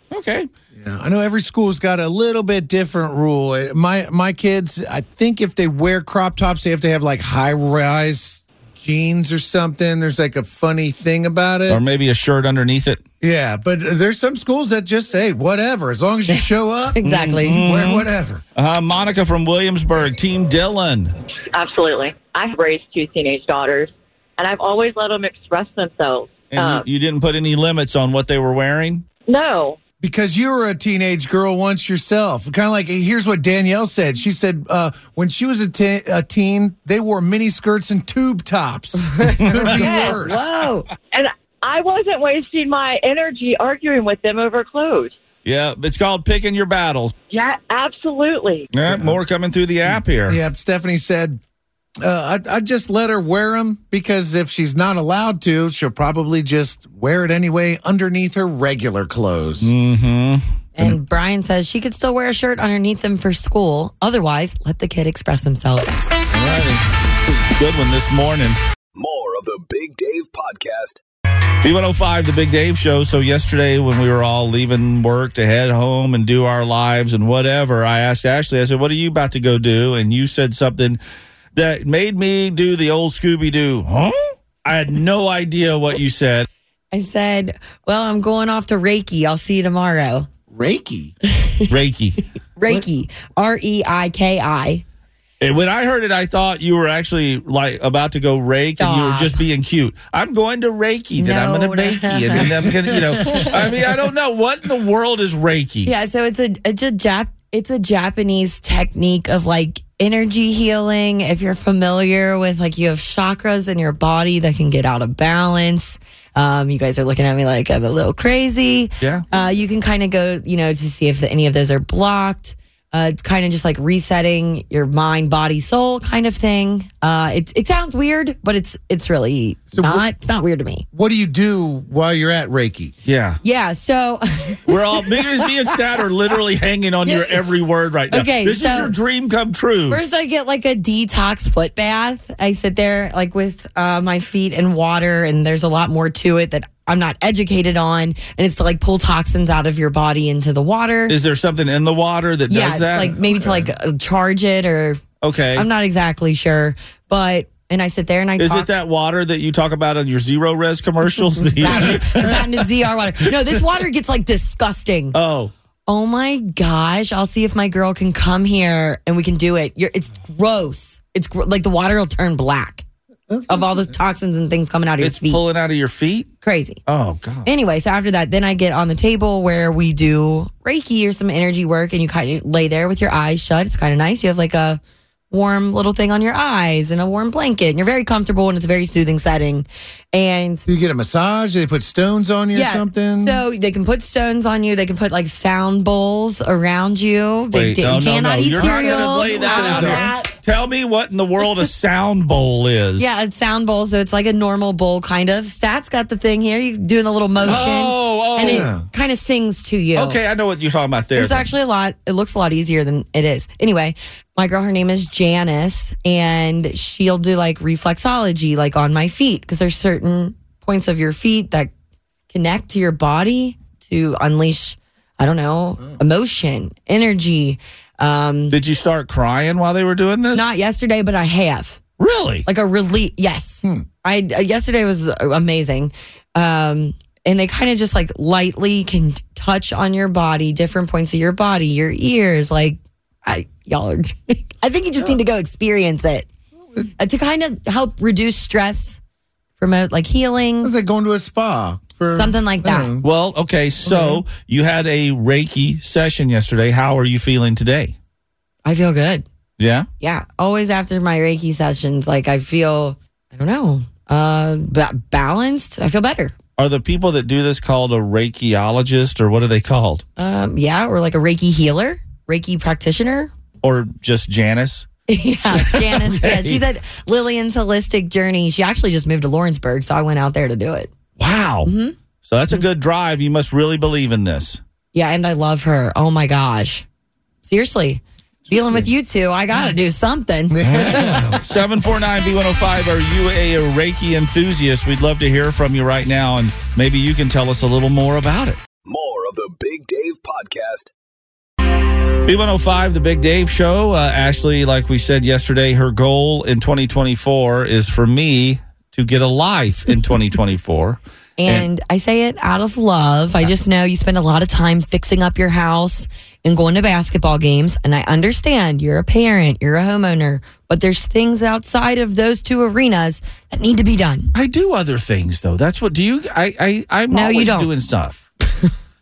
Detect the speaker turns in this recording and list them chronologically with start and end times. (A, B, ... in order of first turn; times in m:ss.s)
0:00.1-0:00.5 A
0:00.8-0:11.8 B
0:11.7-0:13.0 A
0:13.2-0:18.4 B
0:16.3-0:17.6 C
0:17.0-0:21.1 A
0:21.5-0:26.8 D
0:26.5-0:29.0 A
0:29.3-0:29.8 D
0:30.0-0:40.5 B
0:39.0-0:40.9 C
0:39.4-0:39.9 A
0:41.1-0:45.1 D
0:45.4-0:47.1 A
0:47.3-0:48.7 D
0:48.7-0:50.4 A
0:48.9-0:49.2 B
0:49.9-0:51.4 B
0:52.0-0:59.7 B
0:59.6-1:00.4 A
1:00.8-1:06.0 C
1:06.3-1:06.8 B
1:07.6-1:08.6 A
1:08.9-1:11.0 E
1:11.6-1:21.0 A
1:21.6-1:26.5 A
1:26.9-1:30.3 C
1:30.5-1:31.1 B
1:31.3-1:31.7 C
1:31.7-1:32.2 A
1:32.6-1:34.8 C
1:35.4-1:45.9 A
1:38.8-1:39.4 C
1:41.2-1:43.6 C
1:45.8-2:10.9 C
2:09.7-2:10.0 B
2:10.9-2:12.9 B
2:13.0-2:13.4 A
2:13.4-2:15.5 C
2:14.7-2:20.0 A
2:17.1-2:17.5 C
2:18.1-2:18.9 C
2:19.9-2:31.2 C
2:31.1-2:33.2 A
2:32.5-2:35.0 C
2:33.2-2:33.7 B
2:35.2-2:35.7 A
2:35.6-2:38.7 C
2:38.4-2:42.7 A
2:41.4-2:45.2 C
2:41.6-2:42.1 B
2:45.1-2:45.5 A
2:45.9-2:52.8 C
2:53.3-2:53.9 B
2:53.5-2:55.4 C
2:55.0-2:56.3 A
2:56.4-2:56.8 C
2:56.9-2:57.5 A
2:57.5-3:04.8 C
3:05.3-3:10.6 C
3:10.7-3:13.4 B
3:12.5-3:20.3 C
3:17.5-3:23.1 A
3:18.6-3:20.1 B
3:23.0-3:30.2 C
3:27.4-3:28.8 A
3:28.4-3:28.9 B
3:30.0-3:31.5 A
3:31.2-3:41.7 C
3:42.3-3:48.6 C
3:48.5-3:50.5 A
3:50.3-3:51.8 C
3:52.0-3:52.4 A
3:52.5-4:06.3 C
4:07.0-4:09.0 C
4:09.6-4:10.7 C
4:10.6-4:13.0 B
4:12.1-4:12.9 C
4:13.0-4:18.0 A
4:13.8-4:14.2 B
4:18.6-4:19.3 C
4:19.6-4:19.9 A
4:20.0-4:26.4 C
4:26.6-4:30.0 A
4:30.2-4:33.3 C
4:33.6-4:34.9 A
4:35.1-4:40.9 C
4:35.5-4:36.6 A
4:41.2-4:41.7 A
4:41.6-4:42.0 C
4:42.2-4:44.6 A
4:44.9-4:46.8 C
4:47.4-4:51.4 C
4:48.5-4:48.9 B
4:50.5-4:51.4 B
4:50.6-4:58.6 A
4:58.8-5:00.9 E
5:02.3-5:11.7 A
5:11.4-5:24.3 C
5:24.3-5:28.2 A
5:27.1-5:27.7 C